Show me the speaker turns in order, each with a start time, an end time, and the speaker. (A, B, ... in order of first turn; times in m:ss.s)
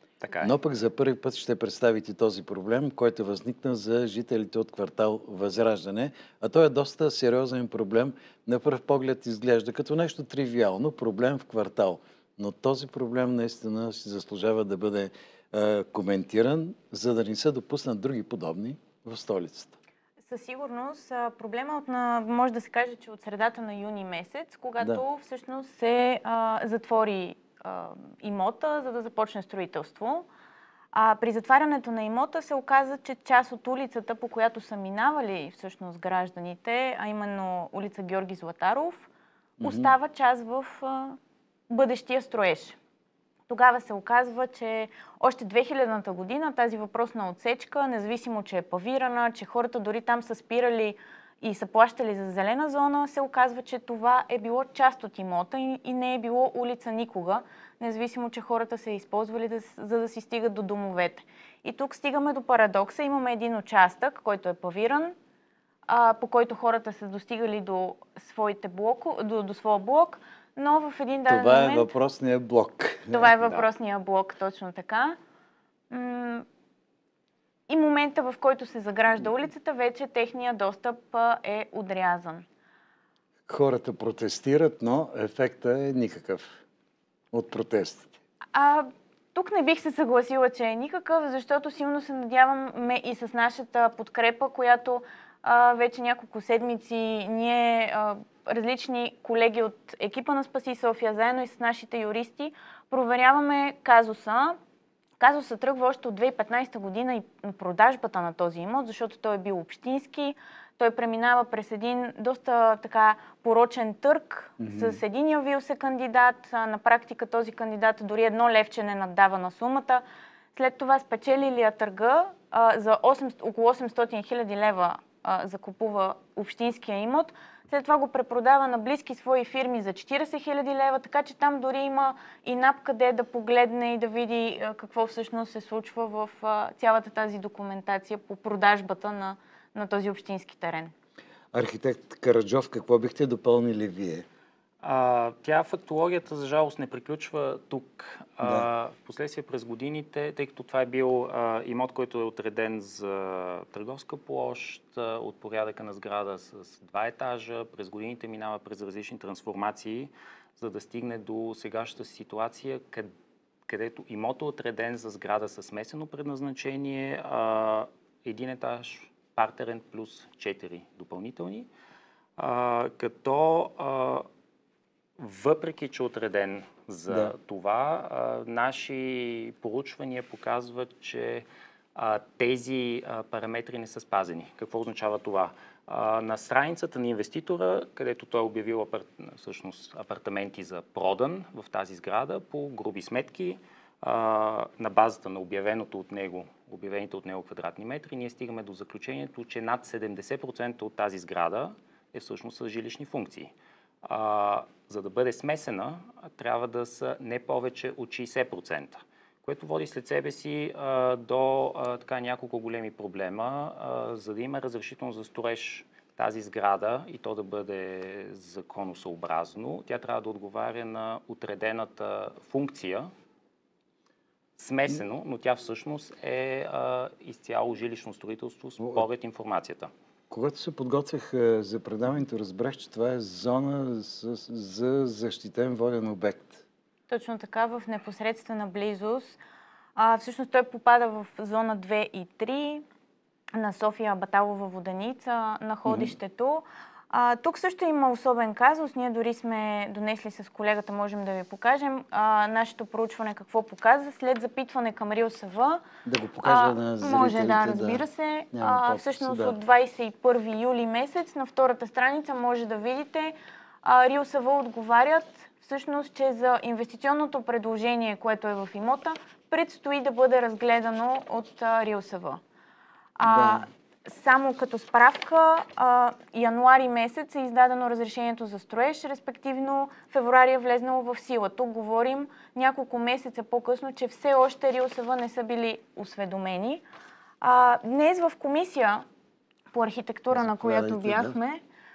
0:00.2-0:00.5 A
0:00.4-0:19.8 B
0:20.2-0:30.3 C
0:30.9-0:39.1 C
0:39.6-0:39.9 B
0:39.6-0:41.2 C
0:41.7-0:42.8 C
0:43.5-1:05.2 C
1:05.9-1:11.9 C
1:11.3-1:13.3 B
1:13.1-1:15.2 C
1:15.9-1:16.4 C
1:17.7-1:22.4 C
1:23.5-1:26.6 B
1:27.3-1:28.2 B
1:28.5-1:44.6 C
1:45.2-2:00.0 C
1:54.6-1:55.0 B
2:00.5-2:20.9 C
2:21.5-2:24.3 B
2:24.8-2:43.1 A
2:43.7-2:51.7 A
2:52.4-2:54.3 A
2:55.2-3:23.5 A
2:57.1-2:57.3 B
3:24.0-3:43.1 A
3:44.6-3:49.9 A
3:48.8-3:49.0 B
3:50.3-3:56.6 B
3:57.1-3:59.4 C
4:00.0-4:02.8 C
4:03.6-4:15.8 C
4:05.9-4:06.1 B
4:16.0-4:19.6 B
4:16.4-4:32.4 C
4:33.2-4:46.8 C
4:33.2-4:33.6 B
4:47.4-4:49.0 C
4:49.7-4:51.6 C
4:50.3-4:51.4 B